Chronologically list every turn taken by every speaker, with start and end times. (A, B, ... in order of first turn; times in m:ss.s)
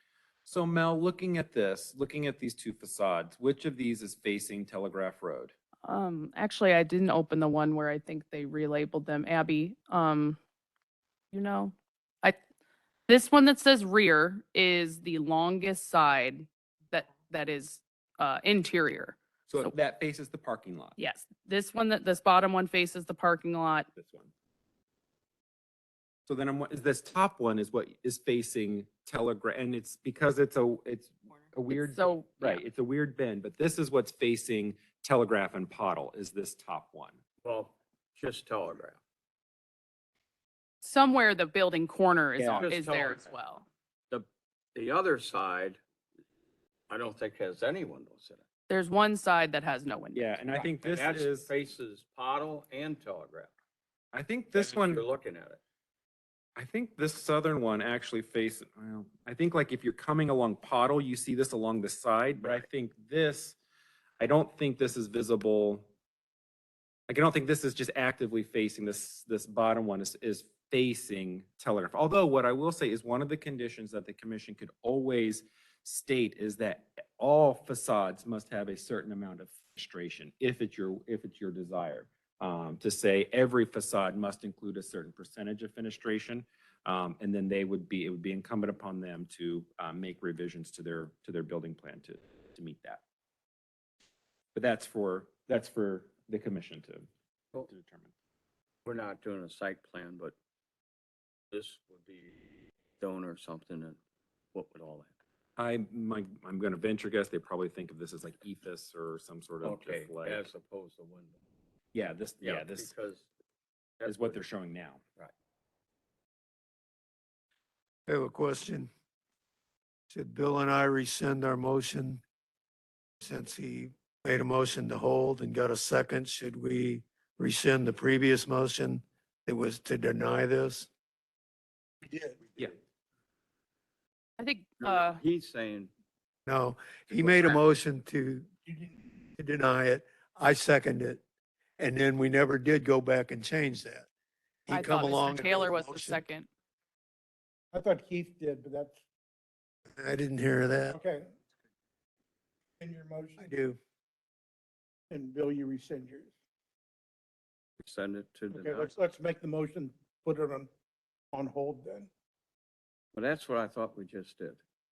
0:00.5-0:05.5 A
0:05.8-0:10.4 B
0:11.3-0:12.4 B
0:13.1-0:19.7 B
0:19.5-0:21.0 A
0:21.0-0:23.9 B
0:24.0-0:24.3 A
0:26.3-0:37.2 A
0:31.7-0:32.6 B
0:37.4-0:39.0 C
0:40.8-0:43.7 B
0:42.4-0:42.7 A
0:42.6-0:43.2 C
0:44.1-0:45.8 C
0:46.9-0:48.4 C
0:48.7-0:50.4 B
0:50.1-0:51.5 A
0:50.6-0:53.5 C
0:54.1-0:55.0 A
0:54.5-0:55.6 C
0:56.6-1:03.6 A
1:04.2-1:05.9 A
1:07.1-1:33.0 A
1:34.6-1:37.1 A
1:37.7-1:38.1 A
1:38.8-1:40.4 C
1:41.5-1:42.5 C
1:43.0-1:44.0 C
1:44.5-1:45.1 C
1:45.6-1:50.5 A
1:49.6-1:51.4 C
1:51.9-1:52.9 A
1:52.4-1:53.3 C
1:54.0-1:54.4 C
1:54.0-1:55.0 A
1:58.1-1:58.9 D
2:00.1-2:02.2 D
2:03.2-2:10.9 D
2:14.4-2:15.2 B
2:14.8-2:15.9 C
2:16.4-2:18.5 D
2:17.1-2:17.6 C
2:18.6-2:19.0 E
2:19.4-2:21.2 D
2:21.8-2:24.1 D
2:24.7-2:26.2 D
2:24.7-2:26.5 B
2:27.7-2:29.0 E
2:30.0-2:31.0 D
2:30.9-2:31.3 E
2:32.8-2:33.5 E
2:33.4-2:33.8 D
2:35.1-2:36.3 E
2:37.8-2:38.9 C
2:38.5-2:40.7 E
2:41.3-2:42.1 E
2:43.1-2:44.6 C